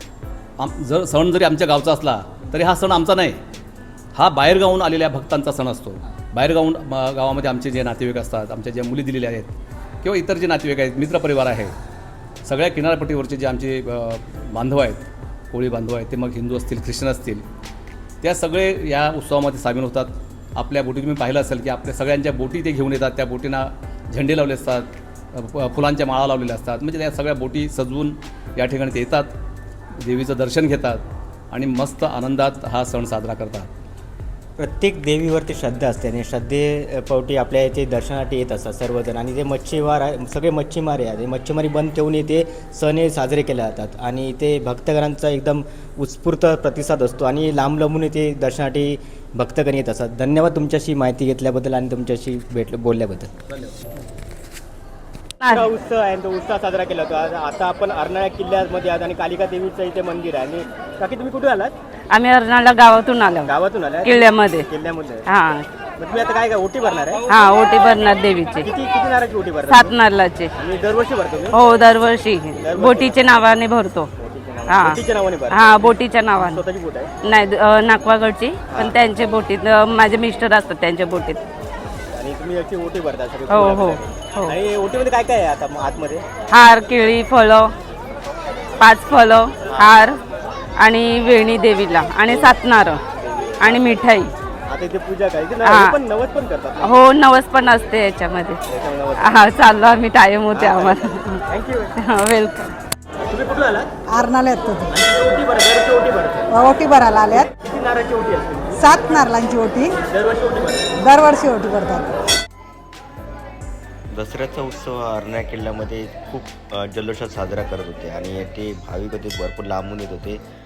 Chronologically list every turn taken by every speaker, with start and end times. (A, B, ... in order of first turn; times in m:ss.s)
0:00.6-0:03.4 A
0:04.1-0:11.7 A
0:12.4-0:17.4 A
0:18.2-0:29.3 A
0:30.0-0:33.7 A
0:34.6-0:53.7 B
0:55.4-0:55.7 C
0:55.4-1:01.7 B
1:02.1-1:03.5 C
1:03.5-1:05.2 B
1:04.0-1:04.7 C
1:05.3-1:05.6 C
1:06.0-1:07.2 B
1:07.3-1:08.6 C
1:08.6-1:10.0 B
1:09.7-1:10.5 C
1:10.6-1:11.6 B
1:11.5-1:14.1 C
1:12.6-1:13.4 B
1:14.2-1:17.1 B
1:14.7-1:15.0 C
1:15.5-1:16.6 C
1:17.2-1:21.4 C
1:18.7-1:19.0 B
1:22.1-1:26.2 B
1:23.5-1:24.5 C
1:26.5-1:27.7 C
1:28.8-1:30.2 C
1:29.7-1:30.0 B
1:30.8-1:33.0 C
1:32.3-1:32.6 B
1:33.2-1:34.0 B
1:33.6-1:34.3 C
1:34.7-1:37.0 B
1:35.6-1:35.9 C
1:36.8-1:38.6 C
1:38.7-1:39.6 B
1:39.2-1:41.4 C
1:40.5-1:41.9 B
1:42.0-1:42.7 C
1:43.3-1:43.9 B
1:44.1-1:44.9 D
1:44.9-1:46.5 B
1:46.5-1:47.5 D
1:47.3-1:49.2 B
1:48.8-1:49.9 D
1:50.0-1:51.0 B
1:51.0-1:52.1 D
1:54.1-2:00.4 E